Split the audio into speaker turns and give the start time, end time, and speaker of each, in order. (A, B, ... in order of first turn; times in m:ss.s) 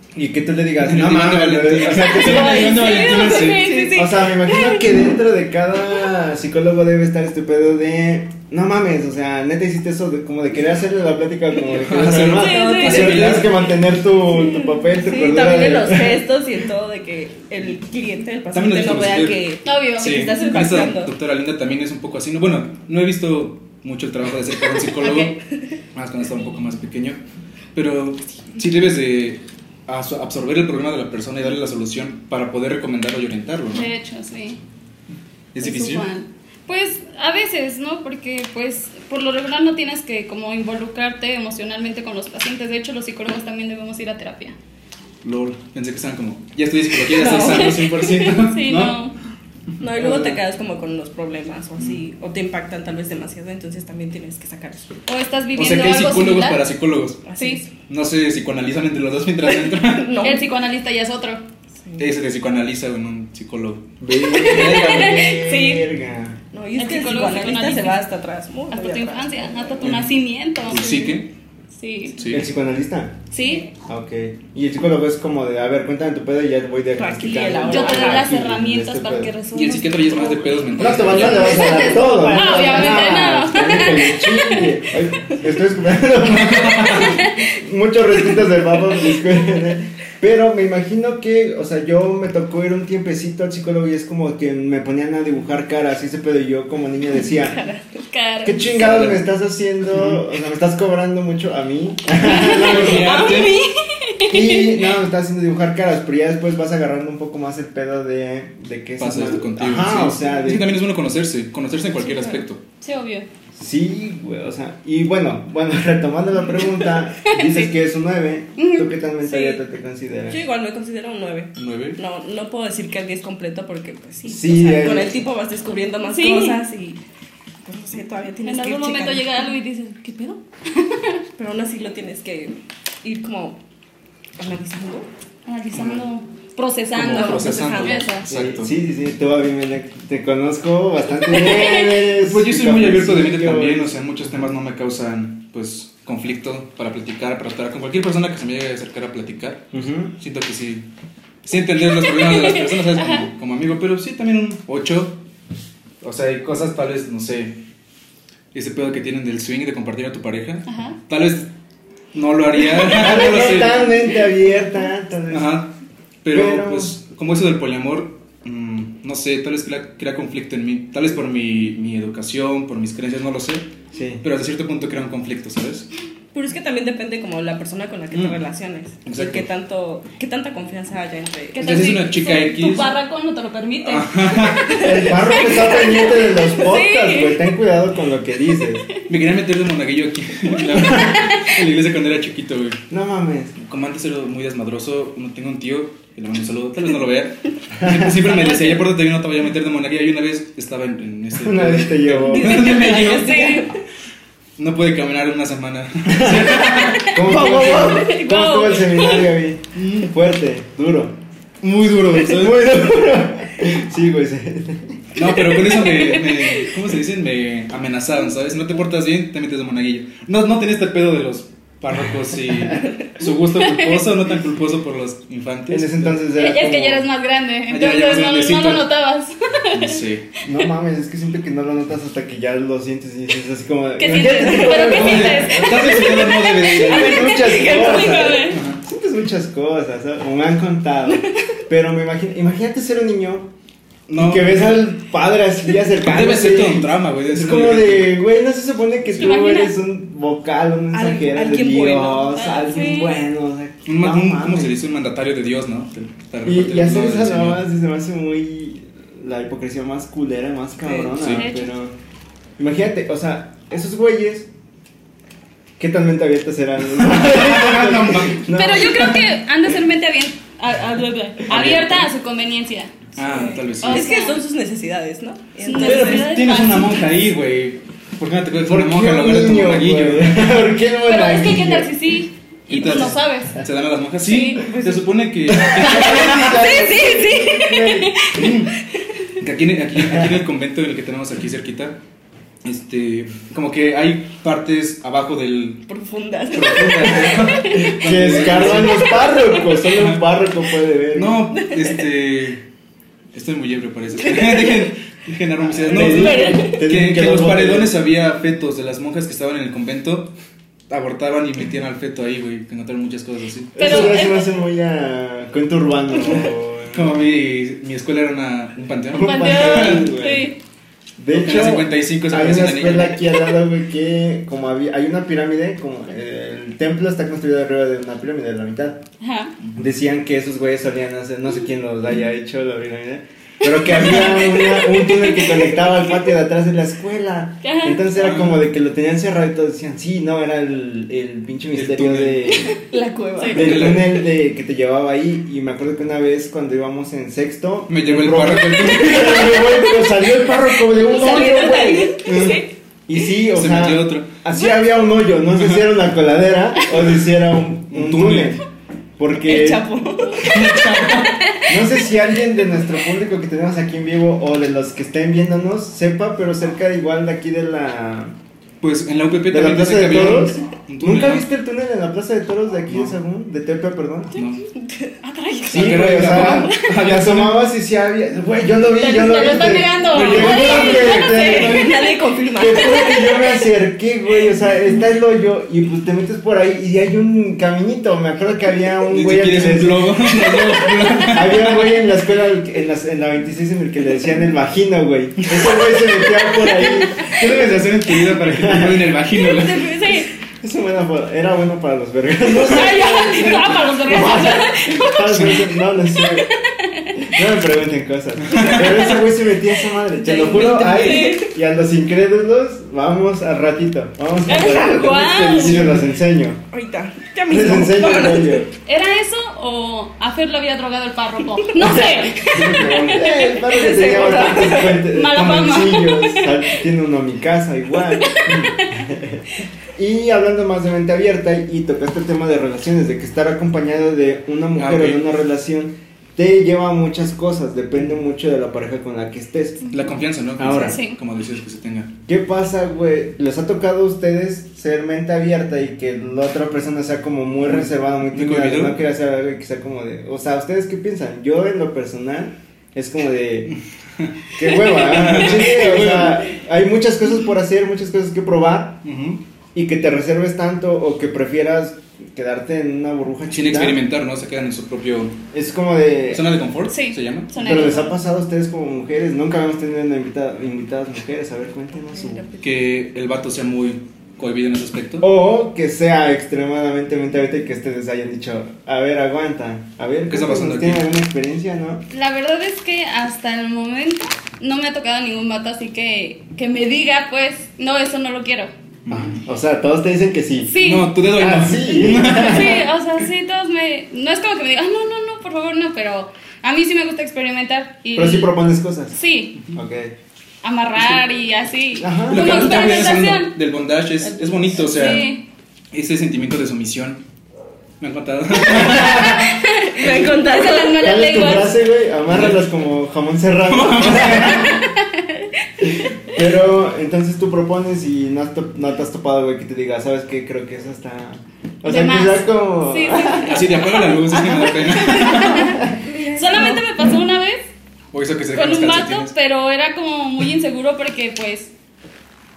0:00.1-0:02.9 A
0:00.8-0:03.8 B
0:02.0-0:04.9 C
0:02.1-0:04.8 D
0:03.9-0:16.2 A
0:11.7-0:13.6 B
0:12.3-0:13.5 C
0:12.4-0:13.2 D
0:14.3-0:21.1 C
0:18.5-0:25.4 B
0:19.6-0:20.5 D
0:25.0-0:25.4 D
0:25.9-0:27.2 B
0:27.7-0:33.9 B
0:33.7-0:34.6 D
0:35.5-0:36.1 B
0:35.6-0:44.6 D
0:45.2-0:49.1 B
0:47.0-0:48.2 C
0:47.3-0:49.1 D
0:49.8-0:54.9 C
0:49.9-0:50.3 B
0:50.0-0:50.4 A
0:51.8-0:52.0 B
0:55.1-0:56.6 D
0:55.6-0:57.2 B
0:57.2-0:57.7 C
0:57.4-0:57.6 D
0:57.9-1:00.3 B
0:59.6-1:00.4 C
1:00.2-1:01.4 D
1:01.8-1:02.1 C
1:02.0-1:05.3 B
1:04.0-1:06.4 A
1:04.3-1:05.9 D
1:06.5-1:09.9 C
1:06.7-1:08.0 D
1:08.7-1:11.1 D
1:09.8-1:10.1 B
1:10.6-1:11.3 B
1:10.7-1:11.1 C
1:11.7-1:12.2 D
1:12.2-1:12.5 B
1:12.3-1:13.2 A
1:13.3-1:13.7 D
1:13.8-1:19.3 A
1:16.9-1:18.3 C
1:17.6-1:24.7 D
1:19.5-1:21.6 B
1:20.8-1:37.6 A
1:21.0-1:23.4 C
1:26.4-1:27.2 B
1:26.9-1:27.5 D
1:37.3-1:38.0 C
1:38.1-1:38.8 D
1:38.4-1:43.3 A
1:38.6-1:39.3 B
1:39.8-1:40.2 B
1:42.2-1:42.7 D
1:42.4-1:43.6 B
1:42.4-1:43.7 C
1:43.4-1:44.9 D
1:44.3-1:50.8 A
1:49.0-1:52.6 B
1:52.0-1:52.4 C
1:52.8-1:53.3 D
1:53.5-2:00.4 A
1:57.2-1:57.7 D
1:58.6-1:59.6 D
2:00.3-2:07.0 C
2:01.5-2:02.0 B
2:04.3-2:05.2 A
2:06.1-2:06.6 D
2:07.6-2:09.5 C
2:08.4-2:11.2 D
2:11.4-2:13.6 C
2:14.4-2:15.1 C
2:15.4-2:18.3 D
2:15.7-2:16.0 B
2:16.9-2:18.7 B
2:17.0-2:18.1 C
2:18.3-2:24.0 A
2:21.3-2:21.9 D
2:22.1-2:30.8 B
2:29.7-2:30.1 A
2:31.4-2:35.2 B
2:32.0-2:33.2 D
2:36.0-2:37.6 B
2:38.5-2:41.5 B
2:40.7-2:41.0 D
2:42.1-2:43.9 B
2:42.8-2:45.6 A
2:45.3-2:45.7 B
2:46.2-2:53.7 B
2:46.3-2:46.9 A
2:53.9-2:54.2 A
2:54.2-2:55.9 B
2:56.3-3:01.6 C
2:58.1-2:58.4 B
2:59.0-2:59.5 B
3:01.5-3:07.4 D
3:01.6-3:02.9 B
3:03.8-3:04.8 B
3:04.6-3:05.7 C
3:04.8-3:08.8 A
3:09.1-3:12.8 B
3:10.6-3:11.6 D
3:12.9-3:13.6 A
3:13.6-3:23.6 B
3:17.8-3:18.1 A
3:18.4-3:18.8 D
3:21.4-3:22.7 A
3:22.2-3:23.8 C
3:22.5-3:23.7 D
3:24.6-3:27.8 B
3:26.1-3:31.2 A
3:26.6-3:29.3 D
3:27.3-3:28.1 C
3:29.7-3:30.1 B
3:31.6-3:32.7 B
3:32.1-3:35.0 A
3:35.1-3:46.2 B
3:35.5-3:36.7 D
3:43.6-3:44.1 D
3:45.7-3:47.0 A
3:46.3-3:50.0 D
3:47.7-3:48.9 B
3:49.7-3:50.3 B
3:50.4-4:03.5 A
3:54.0-3:58.6 D
3:54.7-3:57.3 B
3:56.1-3:58.5 C
3:58.5-3:58.8 B
4:01.1-4:01.4 C
4:04.1-4:04.9 B
4:04.2-4:14.8 A
4:06.0-4:08.2 B
4:09.2-4:09.8 D
4:10.9-4:12.6 C
4:12.3-4:13.2 D
4:13.8-4:17.6 B
4:16.4-4:21.9 A
4:20.8-4:21.2 C
4:21.2-4:21.4 B
4:21.3-4:21.7 D
4:22.6-4:24.5 A
4:25.8-4:29.4 A
4:26.9-4:28.4 B
4:28.5-4:33.1 D
4:31.5-4:32.1 B
4:33.2-4:34.1 B
4:33.2-4:36.3 C
4:33.7-4:34.4 D
4:35.6-4:37.0 D
4:35.7-4:40.7 B
4:38.6-4:41.9 A
4:41.0-4:43.6 D
4:42.7-4:46.8 B
4:42.8-4:43.1 A
4:44.2-4:44.7 D
4:44.6-4:45.1 C
4:45.5-4:48.2 A
4:45.8-4:47.9 C
4:46.9-4:48.6 D
4:48.3-4:48.7 B
4:49.4-4:52.0 B
4:50.0-4:50.3 A
4:52.6-4:55.8 B
4:55.9-4:57.6 C
4:56.5-4:59.3 B
4:57.5-4:57.9 D
4:57.7-5:01.4 A
4:59.8-5:00.2 B
5:01.1-5:02.6 B
5:01.6-5:02.0 C
5:03.3-5:10.3 B
5:04.2-5:04.9 C
5:05.7-5:08.0 A
5:05.8-5:06.8 C
5:10.9-5:14.1 B
5:13.7-5:17.2 A
5:13.8-5:14.5 D
5:16.9-5:20.1 B
5:19.1-5:20.5 A
5:19.1-5:20.6 D
5:21.2-5:29.0 A
5:21.3-5:23.4 B
5:29.2-5:29.5 D
5:29.8-5:42.8 A
5:33.9-5:34.8 B
5:37.6-5:38.0 D
5:38.1-5:38.6 B
5:41.7-5:42.7 B
5:42.7-5:44.0 C
5:43.4-5:43.6 D
5:43.5-5:44.2 B
5:43.5-5:58.6 A
5:47.9-5:50.0 B
5:50.9-5:52.6 C
5:51.1-5:52.6 D
5:53.5-5:54.3 B
5:55.5-5:55.8 B
5:57.9-5:58.6 B
5:59.2-5:59.9 A
5:59.4-6:01.2 C
6:00.4-6:01.4 B
6:01.3-6:01.7 D
6:01.7-6:08.3 A
6:08.8-6:11.5 B
6:09.5-6:14.4 A
6:12.9-6:13.1 B
6:14.3-6:14.6 B
6:14.7-6:16.8 C
6:15.2-6:16.0 D
6:15.7-6:17.7 B
6:15.7-6:21.9 A
6:19.0-6:22.2 D
6:20.1-6:21.0 B
6:20.2-6:23.6 C
6:22.5-6:30.7 A
6:29.0-6:32.0 B
6:31.3-6:39.1 A
6:35.5-6:35.8 B
6:37.2-6:39.9 B
6:39.4-6:40.3 C
6:39.5-6:40.3 D
6:40.6-6:46.5 A
6:42.4-6:45.5 D
6:45.2-6:45.7 B
6:46.2-6:47.3 D
6:47.3-6:56.6 A
6:48.4-6:49.0 B
6:48.8-6:49.2 C
6:50.1-6:51.5 C
6:50.4-6:51.5 D
6:54.5-6:55.8 D
6:54.5-6:55.8 C
6:55.6-6:56.1 B
6:56.7-6:58.7 C
6:57.5-6:58.7 A
6:58.8-7:03.5 D
7:01.8-7:19.9 A
7:03.0-7:05.0 C
7:05.1-7:06.6 D
7:08.2-7:09.0 D
7:14.8-7:15.3 B
7:19.9-7:22.1 B
7:20.6-7:21.0 A
7:20.7-7:21.2 D
7:22.3-7:33.7 A
7:27.6-7:29.0 B
7:33.7-7:36.5 B
7:34.6-7:39.0 A
7:39.0-7:39.4 B
7:39.7-7:44.0 A
7:43.5-7:45.4 B
7:45.5-7:46.4 A
7:46.3-7:47.5 B
7:46.9-7:48.2 D
7:47.6-7:52.4 A
7:52.1-7:52.7 C
7:52.6-7:55.3 B
7:55.2-8:02.0 A
8:00.3-8:01.1 B
8:02.1-8:08.7 D
8:09.0-8:09.4 B
8:09.1-8:12.8 A
8:10.7-8:11.1 D
8:10.8-8:12.8 B
8:12.2-8:18.5 D
8:18.2-8:19.2 A
8:19.1-8:19.6 D
8:19.7-8:20.1 A
8:20.6-8:23.6 D
8:22.0-8:22.9 A
8:22.3-8:25.3 B
8:24.2-8:24.8 C
8:24.8-8:25.4 D
8:25.9-8:27.2 B
8:28.0-8:29.4 B
8:28.7-8:29.4 A
8:28.9-8:31.8 D
8:29.8-8:31.0 C
8:31.0-8:34.8 A
8:32.3-8:32.6 B
8:33.7-8:34.8 B
8:34.4-8:36.0 D
8:35.8-8:43.7 A
8:41.8-8:47.6 D
8:43.4-8:45.8 B
8:45.6-8:45.9 A
8:45.9-8:46.8 C
8:48.1-8:49.3 B
8:48.5-8:51.7 D